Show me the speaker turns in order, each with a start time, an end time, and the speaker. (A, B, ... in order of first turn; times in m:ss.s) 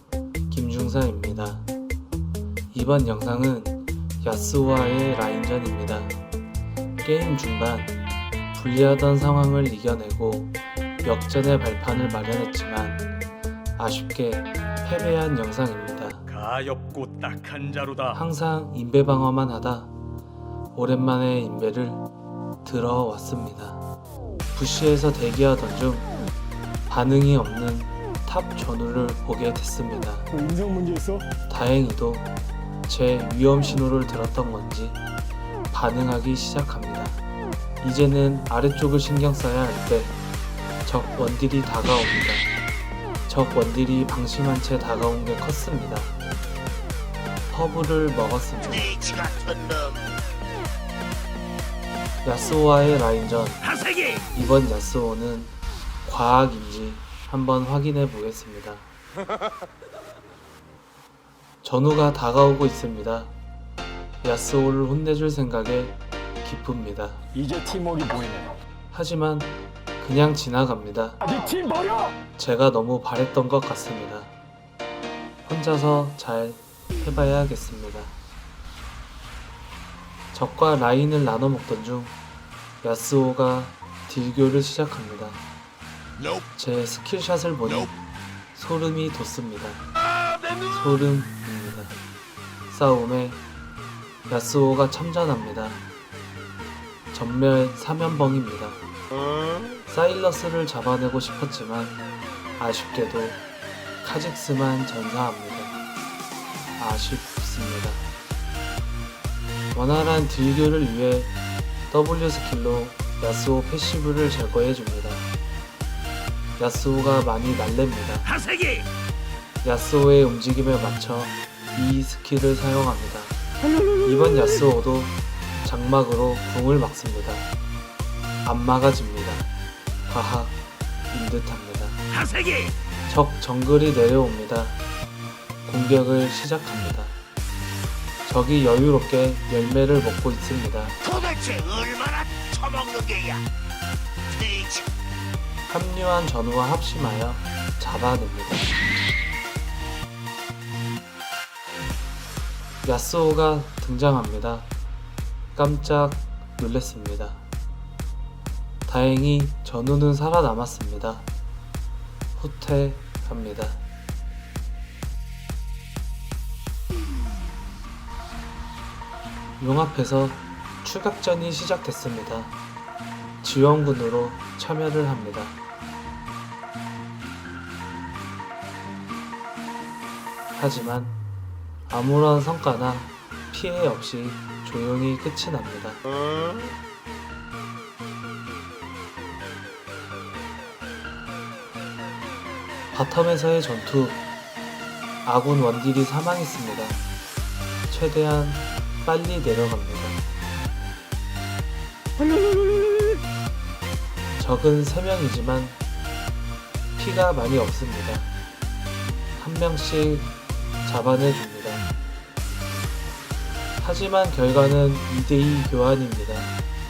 0:00.5-0:01.7 A
0:02.7-0:06.2 A
0:07.0-0:08.0 A
0:08.5-0:13.1 A
0:13.8-0:16.3 A
0:16.3-0:18.2 B
0:18.1-0:19.9 A
0:20.7-0:22.0 A
0:22.6-0:23.8 A
0:24.5-0:26.1 A
0:26.9-0:30.3 A
0:30.3-0:31.3 C
0:31.5-0:32.3 A
0:32.9-0:35.0 A
0:35.7-0:37.2 A
0:37.8-0:40.2 A
0:40.8-0:42.5 A
0:43.3-0:46.2 A
0:47.5-0:49.0 A
0:48.8-0:50.2 D
0:52.2-0:53.8 A
0:54.3-0:58.9 A
1:01.6-1:03.3 A
1:04.2-1:07.2 A
1:07.4-1:08.6 C
1:08.9-1:11.2 A
1:11.2-1:12.1 C
1:12.4-1:14.3 A
1:15.4-1:18.2 A
1:20.3-1:22.2 A
1:22.8-1:25.4 A
1:26.5-1:28.0 A
1:28.5-1:29.9 A
1:30.6-1:32.0 A
1:32.7-1:33.4 A
1:34.3-1:35.8 A
1:37.1-1:38.8 A
1:39.8-1:42.0 A
1:42.6-1:43.4 A
1:44.0-1:45.8 A
1:46.8-1:48.1 A
1:49.7-1:51.3 A
1:51.9-1:55.3 A
1:56.6-1:58.4 A
1:58.5-1:58.8 B
1:59.6-2:03.4 A
2:04.0-2:07.5 A
2:08.4-2:09.5 A
2:10.1-2:10.6 A
2:11.1-2:12.0 A
2:12.2-2:12.7 B
2:13.1-2:14.8 A
2:15.6-2:17.2 A
2:18.3-2:21.0 A
2:21.0-2:23.4 D
2:24.3-2:24.9 D
2:25.7-2:28.7 A
2:32.8-2:34.7 A
2:35.5-2:37.4 A
2:38.9-2:41.3 A
2:42.4-2:43.8 A
2:49.6-2:52.6 A
2:53.4-2:55.6 A
3:00.6-3:01.2 A
3:01.9-3:06.0 A
3:12.9-3:14.2 A
3:15.2-3:17.0 A
3:17.9-3:20.2 A
3:24.4-3:25.8 A
3:27.0-3:28.3 A
3:29.4-3:30.3 A
3:30.8-3:31.9 A
3:33.8-3:36.6 A